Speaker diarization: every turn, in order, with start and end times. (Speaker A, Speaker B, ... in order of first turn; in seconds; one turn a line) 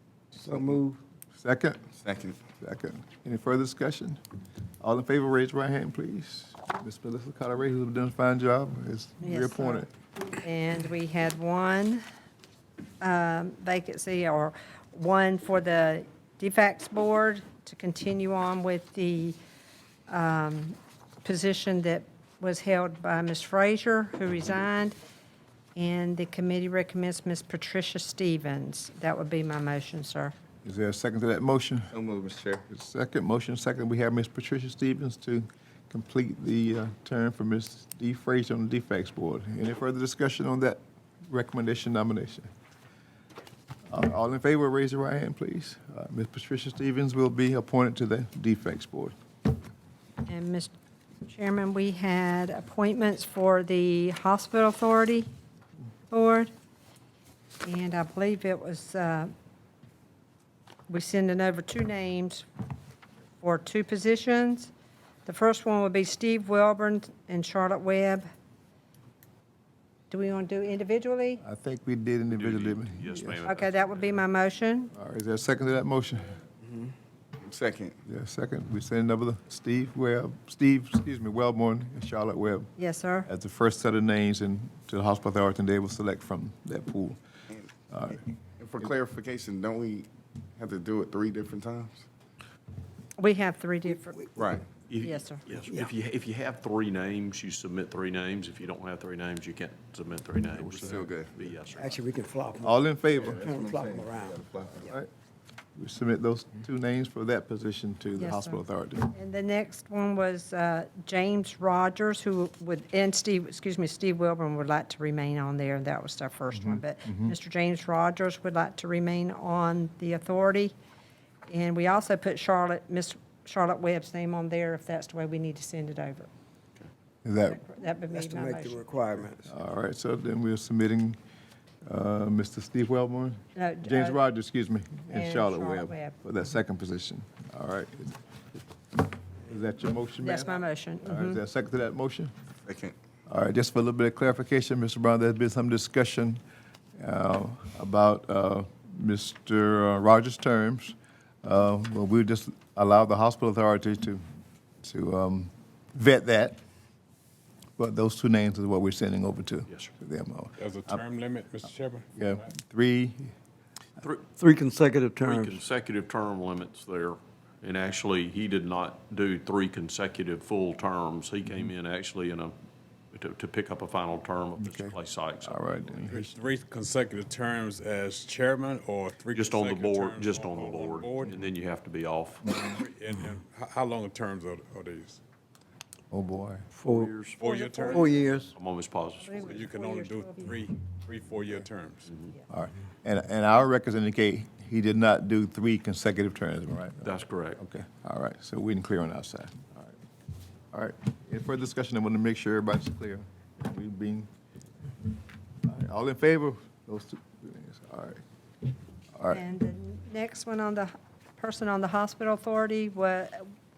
Speaker A: 0.3-1.0
Speaker B: 1.3-1.9
Speaker C: 1.9-2.4
Speaker B: 2.6-4.2
Speaker B: 4.8-9.9
Speaker D: 9.2-9.9
Speaker D: 10.4-12.0
Speaker D: 13.0-19.4
Speaker D: 20.1-25.0
Speaker D: 25.8-30.3
Speaker B: 30.6-31.9
Speaker C: 31.9-32.6
Speaker B: 32.7-42.5
Speaker B: 43.9-49.1
Speaker D: 50.2-50.7
Speaker D: 51.3-55.3
Speaker D: 56.1-56.5
Speaker D: 57.6-59.3
Speaker D: 60.9-62.5
Speaker D: 63.4-64.7
Speaker D: 65.2-68.2
Speaker D: 70.1-71.4
Speaker B: 71.4-73.4
Speaker E: 72.3-74.1
Speaker D: 73.5-74.9
Speaker B: 74.9-76.4
Speaker C: 77.4-78.0
Speaker B: 78.0-82.7
Speaker D: 82.8-83.3
Speaker B: 83.2-87.2
Speaker B: 87.9-88.2
Speaker C: 88.6-92.0
Speaker D: 93.2-94.3
Speaker C: 94.3-94.7
Speaker E: 94.9-101.9
Speaker D: 95.0-95.4
Speaker C: 100.6-101.4
Speaker A: 101.7-104.4
Speaker B: 102.6-103.5
Speaker C: 103.4-104.8
Speaker B: 104.8-105.1
Speaker B: 105.8-109.1
Speaker D: 108.2-120.7
Speaker B: 116.7-117.3
Speaker D: 121.5-126.3
Speaker B: 127.2-127.6
Speaker D: 127.4-128.8
Speaker A: 128.1-129.5
Speaker B: 129.4-131.2
Speaker B: 131.8-138.2
Speaker D: 133.6-134.2
Speaker D: 135.1-136.1
Speaker B: 139.4-142.3
Speaker D: 140.2-141.4
Speaker C: 142.7-142.9
Speaker B: 143.3-146.4
Speaker B: 147.0-154.2
Speaker B: 154.8-156.6
Speaker B: 157.8-161.0
Speaker F: 160.6-162.1
Speaker B: 162.2-163.3
Speaker E: 164.0-164.4
Speaker A: 164.4-165.6
Speaker E: 165.2-172.5
Speaker E: 173.1-176.1
Speaker B: 174.6-176.3
Speaker F: 176.1-181.4
Speaker E: 179.3-182.4
Speaker F: 182.6-185.2
Speaker B: 186.1-186.7
Speaker A: 186.7-187.1
Speaker E: 186.8-187.5
Speaker F: 187.4-188.3
Speaker D: 187.4-188.5
Speaker A: 187.9-188.5
Speaker E: 188.5-189.5
Speaker D: 189.2-190.6
Speaker F: 189.4-192.1
Speaker B: 192.5-199.9
Speaker E: 197.0-197.6
Speaker B: 200.7-204.3
Speaker B: 205.6-208.2
Speaker B: 209.2-209.4
Speaker D: 209.3-213.5